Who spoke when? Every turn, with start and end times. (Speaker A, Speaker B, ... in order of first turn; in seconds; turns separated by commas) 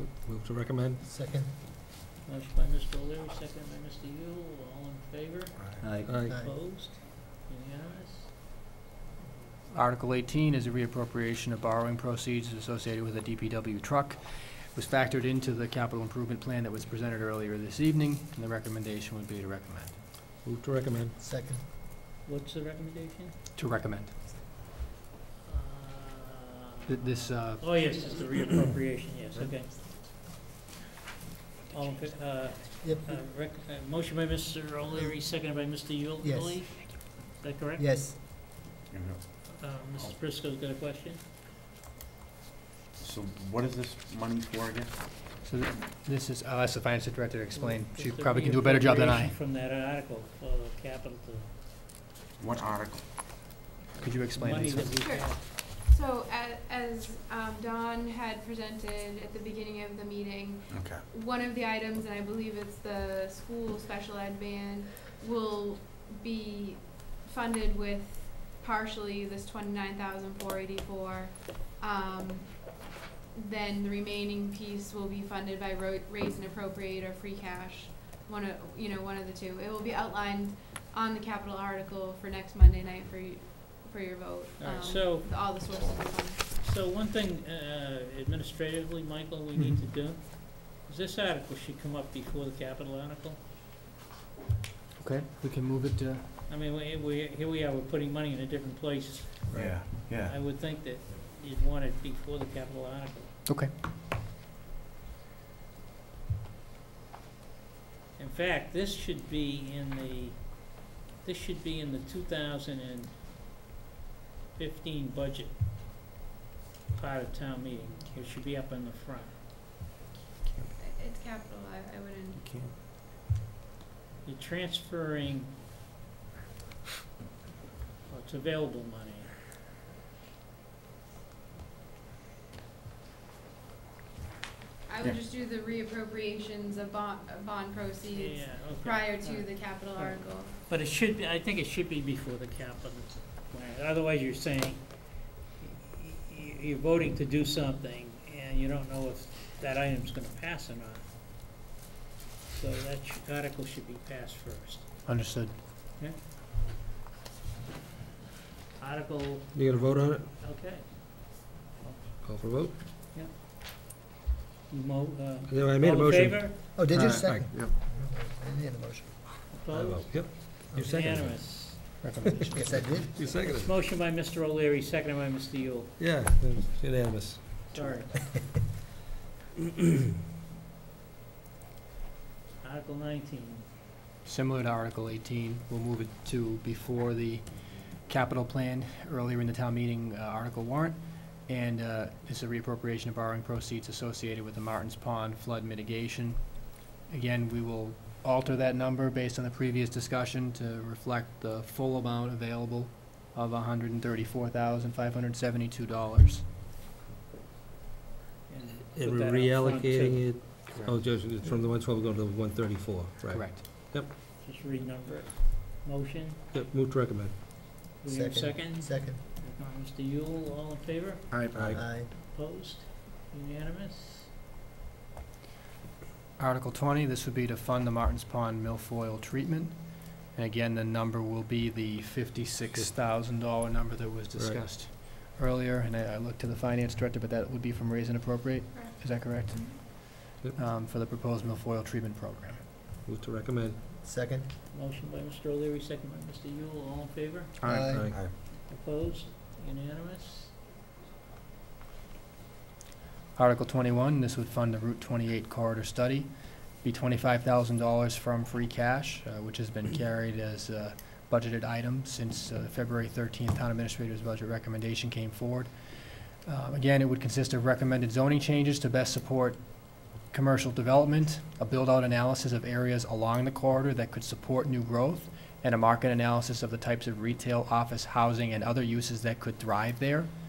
Speaker A: 0.1-1.0, Speaker B: 1.0-1.5, Speaker C: 2.2-8.4, Speaker D: 5.6-6.1, Speaker A: 6.1-6.4, Speaker B: 6.1-6.6, Speaker E: 9.7-20.0, Speaker A: 20.5-21.1, Speaker B: 21.2-21.6, Speaker C: 22.2-23.4, Speaker E: 23.6-24.1, Speaker C: 25.5-29.9, Speaker E: 26.9-27.6, Speaker C: 31.7-37.9, Speaker B: 32.8-33.2, Speaker B: 36.2-37.2, Speaker B: 37.8-38.2, Speaker D: 38.9-40.2, Speaker C: 39.5-41.2, Speaker D: 43.0-44.9, Speaker E: 45.4-49.4, Speaker C: 47.5-51.5, Speaker D: 52.4-53.0, Speaker C: 53.9-55.5, Speaker E: 54.0-55.0, Speaker F: 55.0-86.4, Speaker D: 60.7-61.1, Speaker C: 84.6-85.3, Speaker C: 86.6-93.4, Speaker E: 95.0-96.3, Speaker C: 96.5-103.3, Speaker D: 99.5-100.4, Speaker E: 103.5-103.7, Speaker C: 108.2-113.2, Speaker C: 114.5-115.6, Speaker C: 116.9-119.4, Speaker E: 120.5-120.7, Speaker F: 120.8-122.4, Speaker E: 122.4-122.7, Speaker C: 124.2-125.5, Speaker C: 128.1-129.3, Speaker F: 134.9-140.5, Speaker C: 138.1-151.1, Speaker C: 152.5-154.9, Speaker E: 155.1-155.5, Speaker C: 158.8-163.3, Speaker A: 159.6-160.2, Speaker A: 162.3-162.7, Speaker C: 164.7-166.8, Speaker A: 165.5-167.5, Speaker B: 166.8-169.2, Speaker E: 166.9-167.7, Speaker C: 169.5-172.2, Speaker A: 169.7-171.3, Speaker E: 172.0-173.1, Speaker B: 172.5-173.2, Speaker A: 173.2-173.7, Speaker C: 173.2-176.0, Speaker A: 176.0-177.5, Speaker C: 177.7-178.5, Speaker C: 182.6-183.7, Speaker E: 184.2-196.4, Speaker E: 197.1-206.4, Speaker C: 208.5-210.7, Speaker A: 209.0-214.0, Speaker E: 210.7-211.0, Speaker E: 213.3-213.7, Speaker C: 214.4-216.4, Speaker A: 216.6-217.3, Speaker C: 218.0-224.3, Speaker B: 218.1-219.2, Speaker E: 221.3-221.8, Speaker B: 221.6-222.1, Speaker E: 226.4-242.6, Speaker F: 238.7-239.8, Speaker A: 243.1-243.8, Speaker B: 244.0-244.5, Speaker C: 244.7-247.6, Speaker E: 247.6-248.1, Speaker B: 247.7-248.2, Speaker D: 248.1-248.3, Speaker C: 248.6-250.6, Speaker E: 253.4-280.3